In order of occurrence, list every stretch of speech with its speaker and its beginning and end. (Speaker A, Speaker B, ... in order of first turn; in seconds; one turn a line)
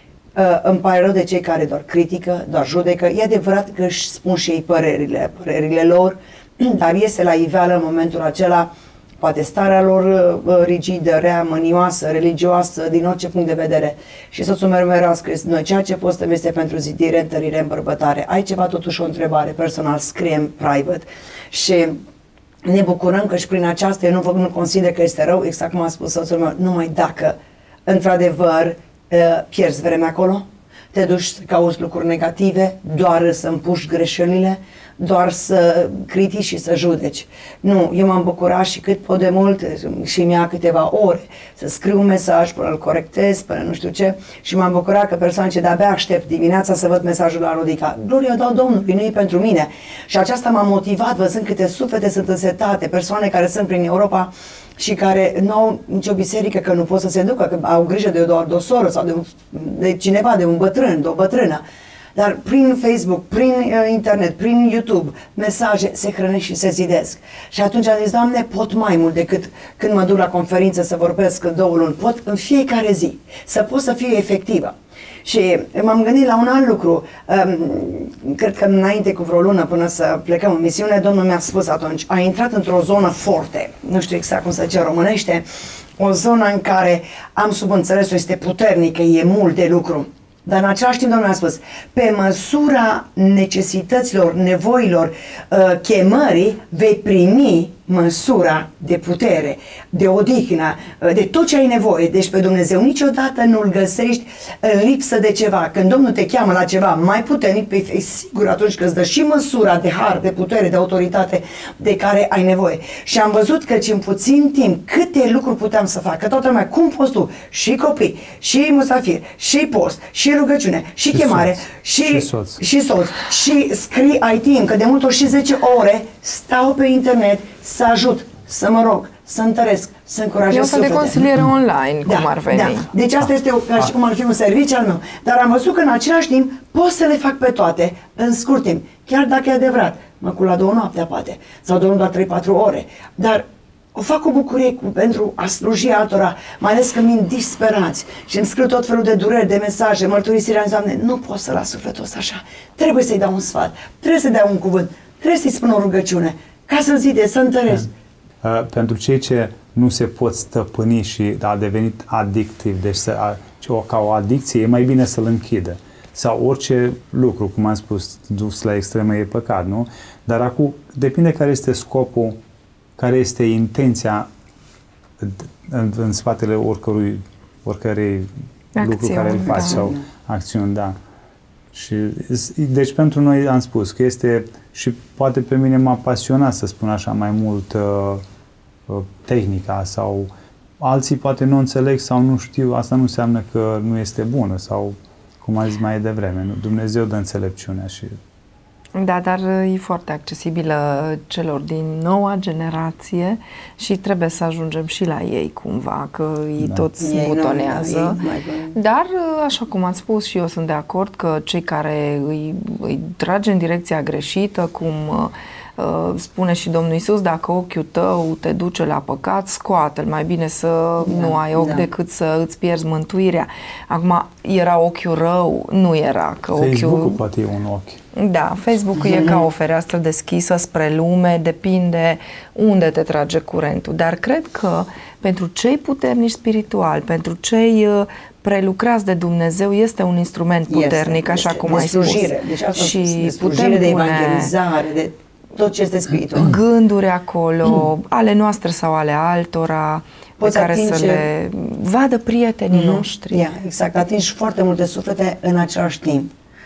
Speaker A: 0.3-22.0
Speaker A: 22.6-61.6
Speaker A: 62.1-85.4
Speaker A: 86.0-131.2
Speaker B: 121.1-122.6
Speaker C: 130.5-132.9
Speaker A: 132.1-157.9
Speaker B: 158.4-172.4
Speaker B: 173.0-174.3
Speaker B: 175.2-180.9
Speaker C: 178.8-179.9
Speaker A: 179.6-179.9
Speaker B: 181.7-188.2
Speaker B: 188.9-198.2
Speaker C: 198.9-208.2
Speaker B: 206.6-206.8
Speaker A: 207.0-208.7
Speaker C: 208.7-227.2
Speaker A: 221.0-221.8
Speaker B: 226.6-228.0
Speaker C: 228.1-244.5
Speaker A: 228.9-229.5
Speaker A: 240.7-246.6
Speaker C: 246.3-253.4
Speaker A: 250.4-251.2
Speaker A: 252.7-256.3